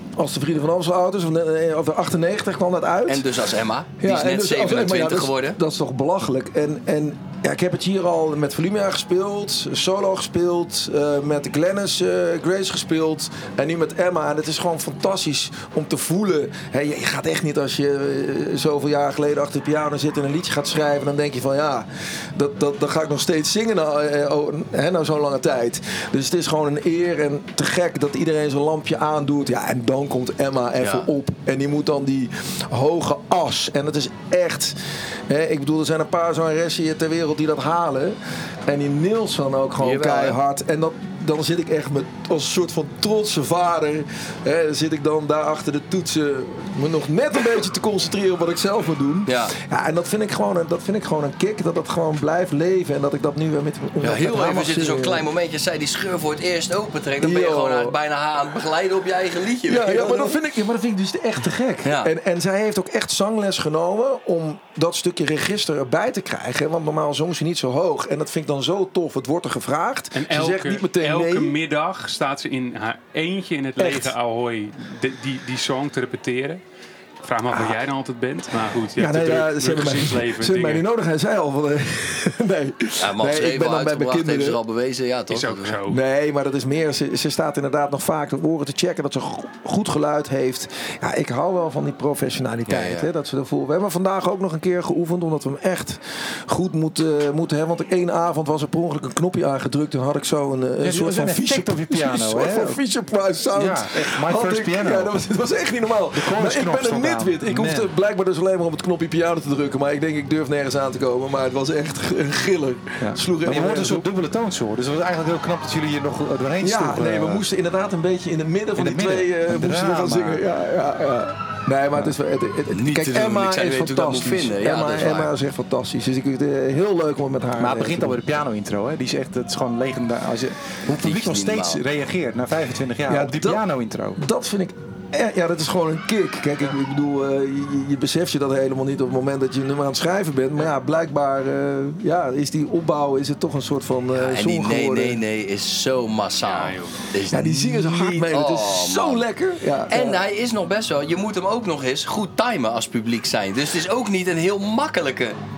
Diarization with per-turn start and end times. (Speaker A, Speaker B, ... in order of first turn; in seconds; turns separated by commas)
Speaker A: 0.2-3.2, Speaker B: 3.1-5.6, Speaker A: 4.0-34.7, Speaker B: 30.8-31.1, Speaker A: 35.3-55.2, Speaker B: 39.8-40.4, Speaker B: 49.2-49.5, Speaker B: 54.0-60.4, Speaker A: 57.2-57.9, Speaker A: 59.7-71.5, Speaker B: 61.8-62.1, Speaker C: 70.1-76.6, Speaker D: 73.8-74.1, Speaker C: 77.2-80.8, Speaker A: 77.5-77.8, Speaker A: 79.0-84.6, Speaker B: 83.0-85.8, Speaker C: 85.3-86.0, Speaker A: 85.9-114.1, Speaker B: 92.7-93.1, Speaker D: 100.8-102.8, Speaker D: 103.5-105.2, Speaker D: 106.1-107.9, Speaker D: 113.0-117.4, Speaker A: 116.6-128.2, Speaker D: 118.8-120.4, Speaker B: 122.7-125.3, Speaker D: 127.6-134.2, Speaker B: 130.9-131.8, Speaker A: 133.1-133.6, Speaker A: 134.2-145.2, Speaker B: 144.1-149.2, Speaker C: 146.4-147.0, Speaker A: 147.3-150.2, Speaker B: 149.9-155.4